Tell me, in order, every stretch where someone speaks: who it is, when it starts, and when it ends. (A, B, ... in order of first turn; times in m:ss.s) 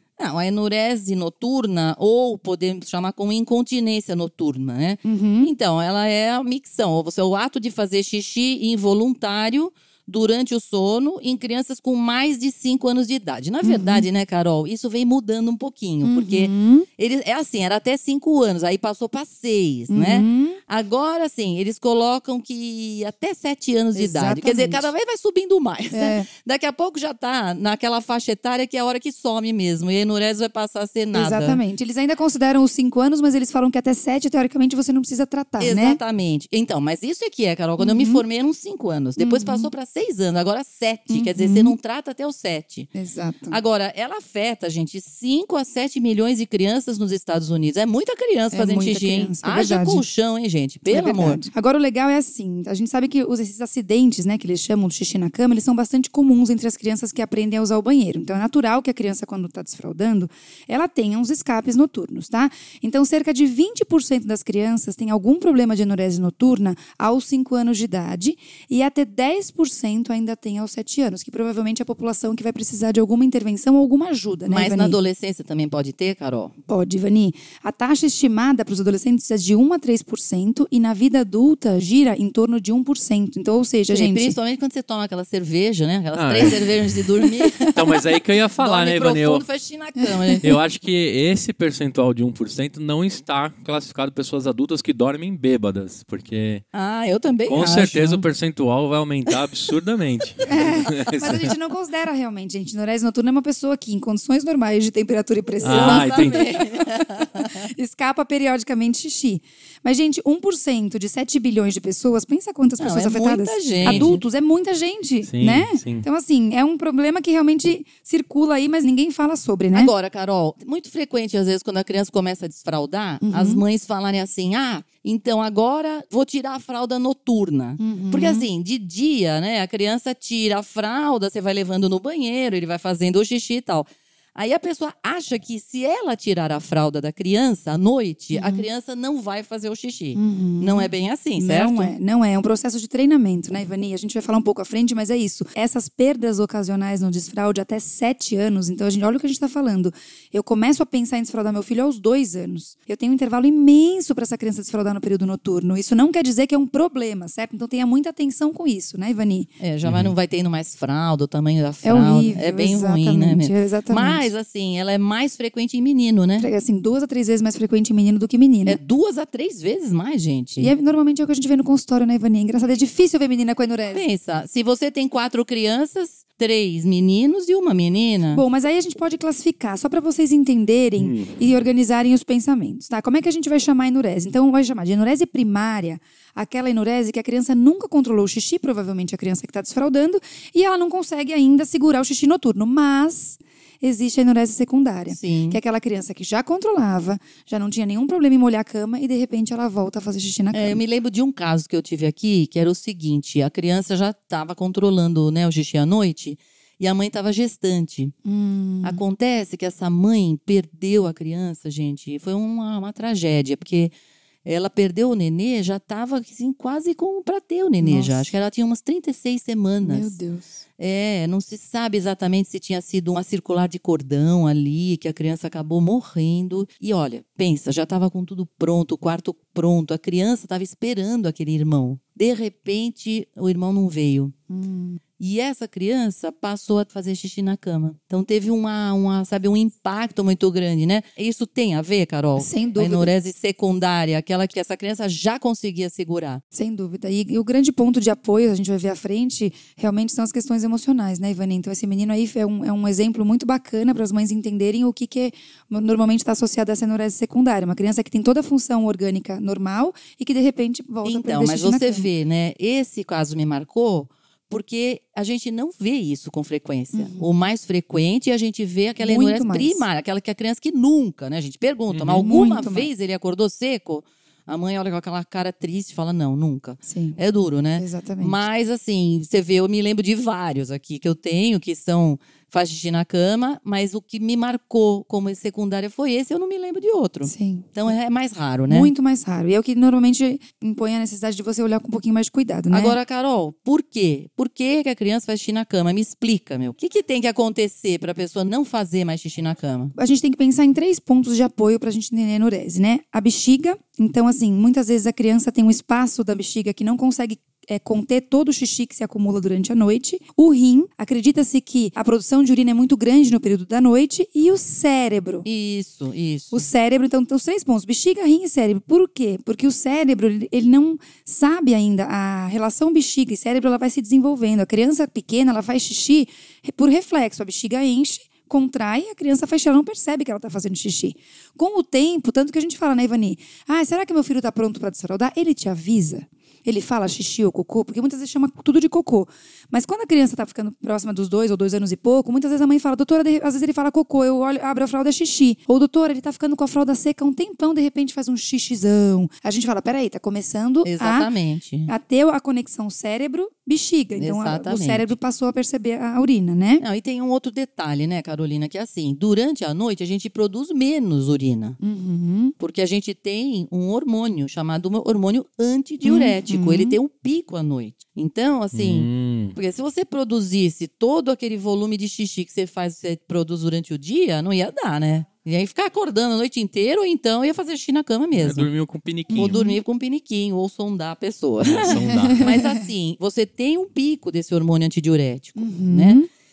0:00.2-0:31.6 A
0:05.0-0:05.5 B
0:13.6-0:14.0 B
0:16.0-0:16.9 B
0:19.9-0:20.6 B
0:23.9-0:24.9 B
0:25.9-0:26.3 B
0:31.1-0:36.0 B
0:35.6-0:42.9 A
0:37.8-0:38.2 B
0:39.2-0:39.7 B
0:41.1-0:41.7 B
0:42.9-0:43.6 B
0:43.5-0:51.4 A
0:48.5-0:50.0 B
0:50.9-1:15.0 B
1:14.5-1:16.5 A
1:16.7-1:24.4 B
1:23.9-1:28.0 A
1:26.1-1:27.0 C
1:27.6-1:29.4 C
1:28.6-1:30.5 A
1:30.0-1:30.4 B
1:30.4-1:36.6 C
1:36.7-1:38.2 A
1:37.5-1:41.5 C
1:40.4-1:59.9 B
1:45.6-1:47.7 A
1:45.6-1:46.4 C
1:52.8-1:54.2 A
1:53.8-1:54.1 C
1:55.3-1:56.0 C
1:59.7-2:21.9 A
2:03.2-2:03.6 B
2:07.8-2:08.5 B
2:18.3-2:18.6 B
2:20.1-2:39.5 B
2:39.6-2:46.5 A
2:39.8-2:40.1 C
2:41.8-2:44.3 B
2:46.4-2:48.8 B
2:48.6-2:50.7 A
2:50.6-2:54.0 B
2:53.9-2:58.4 A
2:58.3-3:20.8 B
3:01.0-3:01.4 C
3:15.1-3:15.6 A
3:20.5-3:28.1 A
3:28.2-3:29.0 B
3:28.8-3:33.9 A
3:34.4-3:40.1 A
3:37.8-3:38.3 B
3:39.8-3:40.6 B
3:40.8-3:54.3 A
3:54.5-3:55.0 B
3:55.2-4:06.4 A
4:02.4-4:03.1 B
4:06.5-4:22.1 B
4:21.0-4:48.9 A
4:26.9-4:27.3 B
4:29.0-4:29.8 B
4:31.9-4:32.3 C
4:32.2-4:32.9 B
4:36.9-4:37.2 B
4:37.8-4:38.4 B
4:47.2-4:47.7 B
4:48.7-4:53.0 B
4:52.7-4:59.9 A
5:00.0-5:15.4 B
5:15.4-5:16.6 A
5:16.5-5:51.3 B
5:50.8-5:51.9 A
5:51.9-5:56.8 B
5:54.2-5:55.1 A
5:56.8-6:01.8 A
6:01.8-6:02.5 B
6:02.6-6:18.7 A
6:06.0-6:07.0 B
6:08.7-6:09.6 C
6:18.4-6:19.6 C
6:19.3-6:19.8 B
6:19.3-6:26.2 A
6:21.6-6:22.5 C
6:21.9-6:22.8 B
6:25.6-6:26.3 B